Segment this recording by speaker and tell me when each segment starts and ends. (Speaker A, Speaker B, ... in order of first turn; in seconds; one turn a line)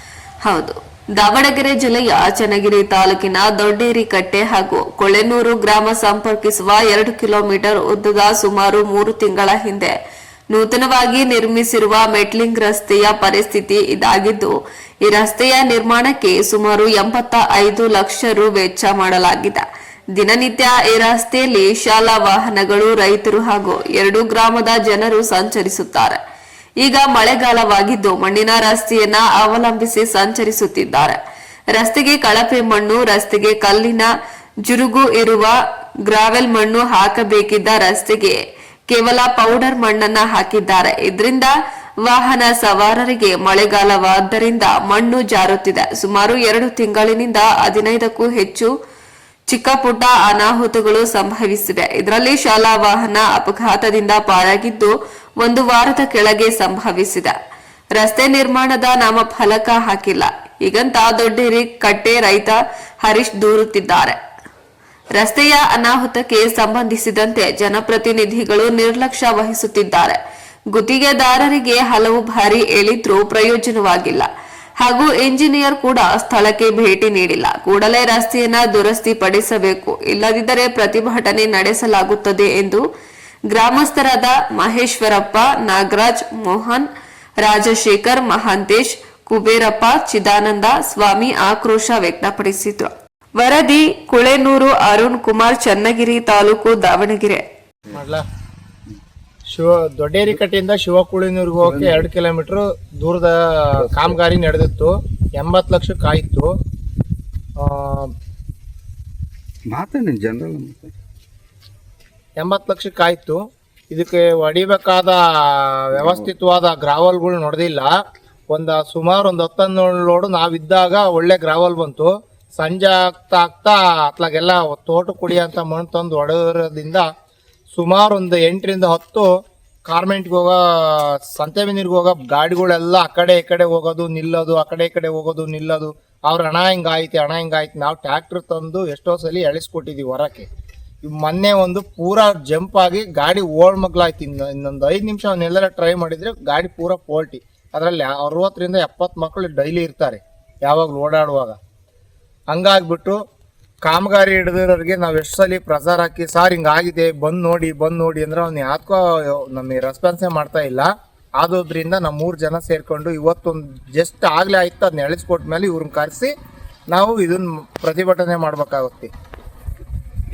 Speaker A: 0.4-10.0
Speaker A: 10.5-19.6
Speaker A: 20.1-26.2
Speaker A: 26.8-31.2
Speaker A: 31.7-34.1
Speaker A: 34.6-35.5
Speaker A: 36.1-38.4
Speaker A: 38.9-48.7
Speaker A: 49.5-57.3
Speaker A: 58.0-64.2
Speaker A: 65.1-70.2
Speaker A: 70.7-74.3
Speaker A: 74.8-82.8
Speaker A: 83.5-86.9
Speaker A: 87.4-97.4
Speaker B: 97.9-98.2
Speaker B: 99.5-106.5
Speaker C: 101.6-102.0
Speaker C: 103.8-104.2
Speaker B: 107.6-108.1
Speaker C: 109.7-110.9
Speaker B: 112.4-117.9
Speaker C: 115.9-116.3
Speaker B: 118.5-127.1
Speaker B: 127.7-129.3
Speaker B: 129.9-140.5
Speaker B: 141.1-151.6
Speaker B: 152.5-153.2
Speaker B: 153.8-166.3
Speaker B: 166.9-169.1